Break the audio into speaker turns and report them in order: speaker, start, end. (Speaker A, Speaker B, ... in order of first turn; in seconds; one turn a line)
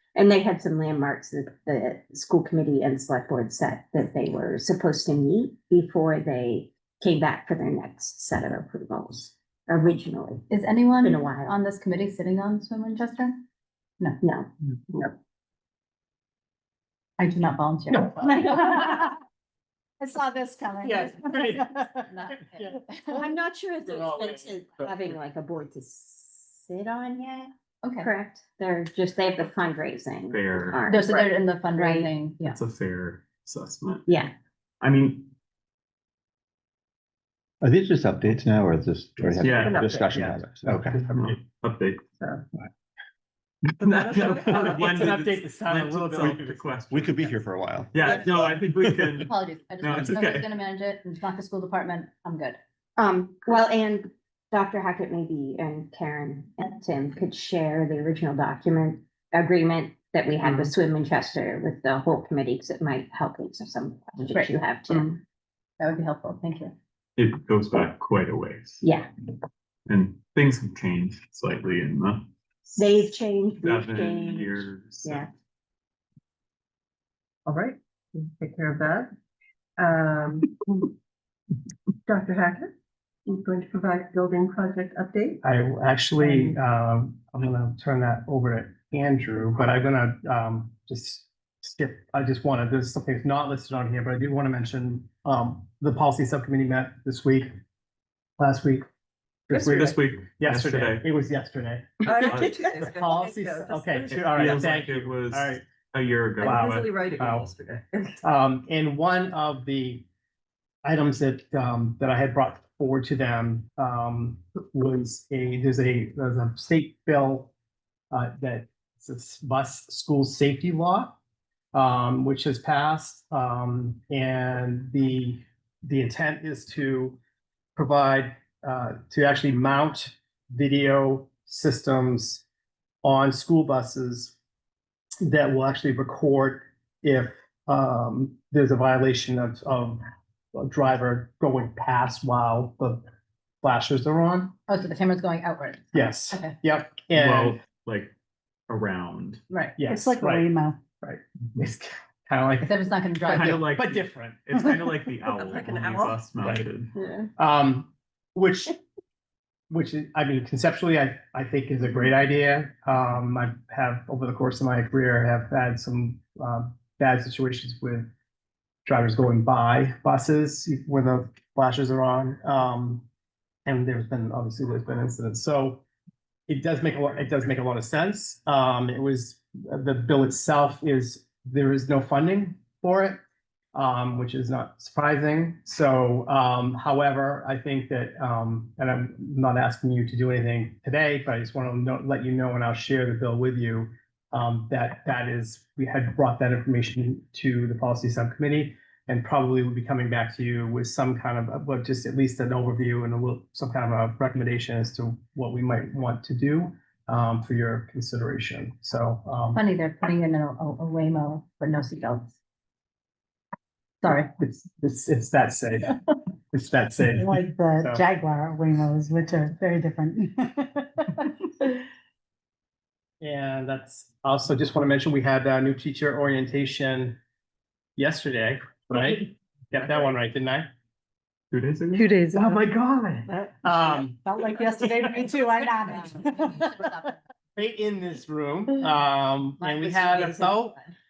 Speaker A: 0.1-10.5
Speaker B: 10.5-13.4
Speaker A: 11.0-11.6
Speaker A: 14.2-15.1
Speaker B: 17.2-19.0
Speaker A: 18.2-19.1
Speaker C: 20.0-21.9
Speaker D: 21.0-21.6
Speaker B: 22.0-23.0
Speaker A: 23.1-27.5
Speaker B: 27.8-28.1
Speaker A: 28.0-31.2
Speaker E: 30.3-30.8
Speaker B: 30.9-32.6
Speaker A: 31.7-32.1
Speaker E: 32.5-34.1
Speaker A: 34.0-34.3
Speaker E: 34.8-35.3
Speaker F: 37.6-41.0
Speaker E: 39.4-39.8
Speaker G: 39.5-40.1
Speaker D: 40.0-41.4
Speaker E: 41.2-42.0
Speaker G: 42.2-42.5
Speaker E: 43.8-47.4
Speaker G: 43.8-44.9
Speaker D: 44.4-46.7
Speaker F: 46.9-48.9
Speaker E: 47.9-50.5
Speaker B: 49.2-52.6
Speaker A: 53.0-65.2
Speaker G: 60.4-60.7
Speaker B: 65.8-66.7
Speaker E: 67.2-68.8
Speaker A: 68.8-69.1
Speaker E: 69.9-72.2
Speaker A: 72.8-75.3
Speaker E: 73.6-75.3
Speaker G: 77.5-79.1
Speaker G: 79.8-80.9
Speaker G: 82.1-82.7
Speaker G: 83.3-85.4
Speaker D: 85.4-97.5
Speaker G: 86.2-86.5
Speaker D: 98.4-98.8
Speaker D: 99.5-101.9
Speaker G: 99.5-99.8
Speaker E: 99.6-101.0
Speaker G: 102.0-104.5
Speaker E: 102.2-102.7
Speaker D: 102.8-105.7
Speaker E: 104.1-107.0
Speaker G: 106.4-108.2
Speaker D: 106.4-107.5
Speaker D: 108.2-110.1
Speaker D: 110.8-117.5
Speaker D: 118.1-121.2
Speaker D: 121.7-127.2
Speaker D: 127.8-132.4
Speaker D: 133.0-134.3
Speaker D: 135.2-140.0
Speaker D: 140.5-143.0
Speaker D: 143.6-144.5
Speaker B: 144.7-146.6
Speaker D: 145.9-147.6
Speaker E: 147.1-148.1
Speaker E: 148.7-149.4
Speaker B: 149.5-149.8
Speaker D: 149.8-150.4
Speaker C: 149.8-150.8
Speaker D: 151.0-154.6
Speaker B: 152.6-153.6
Speaker E: 153.3-156.9
Speaker G: 155.3-156.3
Speaker D: 156.4-156.7
Speaker G: 156.9-157.3
Speaker D: 157.4-158.8
Speaker D: 159.7-168.1
Speaker D: 168.8-173.1
Speaker D: 173.6-175.8
Speaker D: 176.5-183.2
Speaker D: 183.7-209.6
Speaker B: 209.5-212.3
Speaker B: 214.0-214.3
Speaker D: 214.4-215.9
Speaker D: 216.5-218.0
Speaker C: 217.1-221.2
Speaker D: 223.2-227.2
Speaker D: 228.0-230.7
Speaker E: 231.5-232.1
Speaker C: 231.9-232.6
Speaker D: 232.3-234.2
Speaker C: 233.3-236.9
Speaker B: 235.9-237.1
Speaker D: 237.6-240.8
Speaker B: 239.6-240.5